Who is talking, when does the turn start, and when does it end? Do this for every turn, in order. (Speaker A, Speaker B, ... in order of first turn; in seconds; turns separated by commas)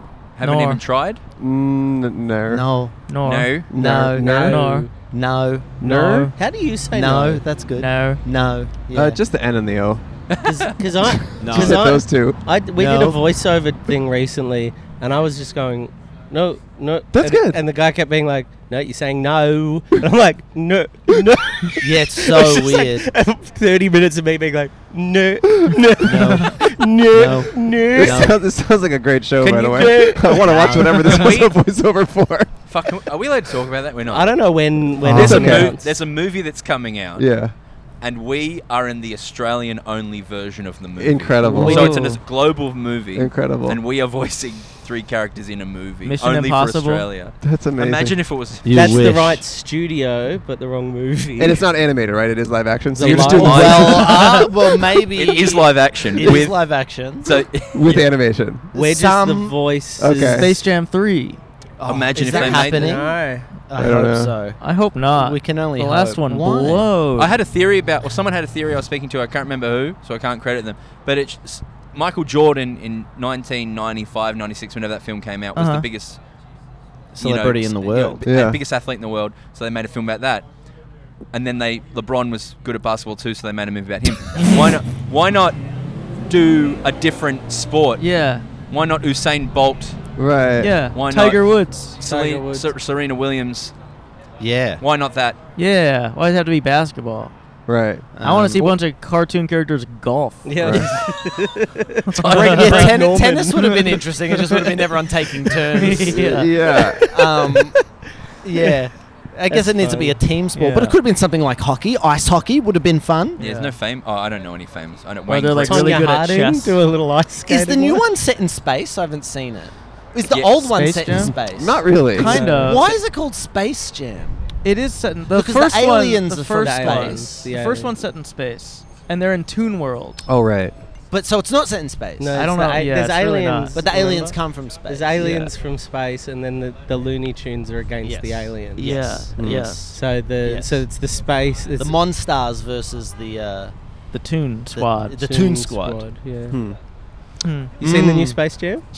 Speaker A: 0.4-1.2, Speaker B: 0.4-0.8, Speaker C: 1.4-2.6, Speaker D: 2.5-3.0, Speaker B: 3.1-4.9, Speaker A: 3.2-3.7, Speaker C: 3.7-4.5, Speaker D: 3.7-5.8, Speaker E: 4.1-4.9, Speaker C: 5.8-6.3, Speaker B: 5.8-6.3, Speaker E: 6.3-7.5, Speaker D: 6.9-9.2, Speaker B: 7.8-8.2, Speaker C: 8.9-10.0, Speaker A: 10.3-10.7, Speaker E: 10.4-28.3, Speaker C: 11.3-12.4, Speaker D: 11.4-12.0, Speaker D: 12.7-13.2, Speaker C: 17.1-17.6, Speaker D: 21.8-23.1, Speaker D: 26.0-28.4, Speaker C: 27.9-32.5, Speaker E: 29.4-30.6, Speaker D: 30.3-31.2, Speaker A: 30.9-31.5, Speaker A: 32.7-37.3, Speaker E: 34.1-35.9, Speaker C: 35.0-35.8, Speaker C: 37.2-37.5, Speaker A: 38.0-49.1, Speaker C: 41.0-42.1, Speaker D: 41.4-42.1, Speaker B: 41.5-41.8, Speaker C: 43.1-43.8, Speaker B: 46.0-47.1, Speaker C: 47.4-48.2, Speaker D: 48.6-49.4, Speaker E: 48.7-51.6, Speaker C: 51.4-54.3, Speaker E: 52.9-54.2, Speaker A: 53.0-54.4, Speaker D: 53.1-57.5, Speaker A: 55.1-58.1, Speaker C: 57.7-58.7, Speaker D: 58.7-59.7, Speaker E: 58.7-60.5, Speaker C: 60.0-60.5, Speaker B: 60.1-61.4, Speaker D: 61.8-67.0, Speaker A: 61.9-63.0, Speaker E: 62.3-63.6, Speaker C: 63.8-64.3, Speaker B: 64.6-67.3, Speaker A: 67.2-76.2, Speaker B: 75.5-75.9, Speaker D: 77.2-78.2, Speaker A: 77.2-80.4, Speaker C: 78.2-78.6, Speaker A: 81.3-85.6, Speaker B: 84.4-84.6, Speaker A: 86.2-88.0, Speaker B: 88.0-88.5, Speaker A: 88.7-90.1, Speaker C: 90.2-90.8, Speaker B: 90.6-92.0, Speaker A: 90.9-93.7, Speaker E: 92.0-92.7, Speaker D: 94.4-94.8, Speaker A: 94.8-95.4, Speaker B: 95.5-97.3, Speaker C: 97.7-98.1, Speaker D: 98.1-98.7, Speaker B: 98.2-101.1, Speaker E: 100.4-104.1, Speaker C: 100.6-100.9, Speaker B: 102.1-103.0, Speaker D: 102.2-107.8, Speaker B: 104.3-104.7, Speaker B: 105.7-106.6, Speaker C: 106.1-107.0, Speaker E: 106.7-108.0, Speaker D: 108.4-113.4, Speaker E: 109.5-110.2, Speaker B: 110.5-111.0, Speaker B: 113.4-113.8, Speaker A: 113.4-116.0, Speaker B: 115.3-116.8, Speaker E: 115.6-118.0, Speaker D: 117.5-124.4, Speaker A: 120.3-120.7, Speaker B: 120.6-121.3, Speaker C: 121.5-122.5, Speaker B: 122.1-123.0, Speaker E: 122.2-122.8, Speaker B: 124.6-130.2, Speaker D: 125.3-127.5, Speaker E: 126.6-127.9, Speaker C: 130.2-130.7, Speaker D: 131.1-132.4, Speaker E: 132.2-139.2, Speaker B: 132.3-133.8, Speaker D: 133.7-135.5, Speaker D: 138.0-140.8, Speaker B: 138.7-139.9, Speaker C: 139.4-139.8, Speaker E: 139.9-142.0, Speaker D: 141.8-143.7, Speaker B: 144.1-145.2, Speaker D: 144.7-146.1, Speaker E: 145.2-146.6, Speaker C: 146.5-146.8, Speaker B: 147.4-147.7, Speaker E: 147.8-148.8, Speaker D: 147.8-148.4, Speaker C: 147.9-148.3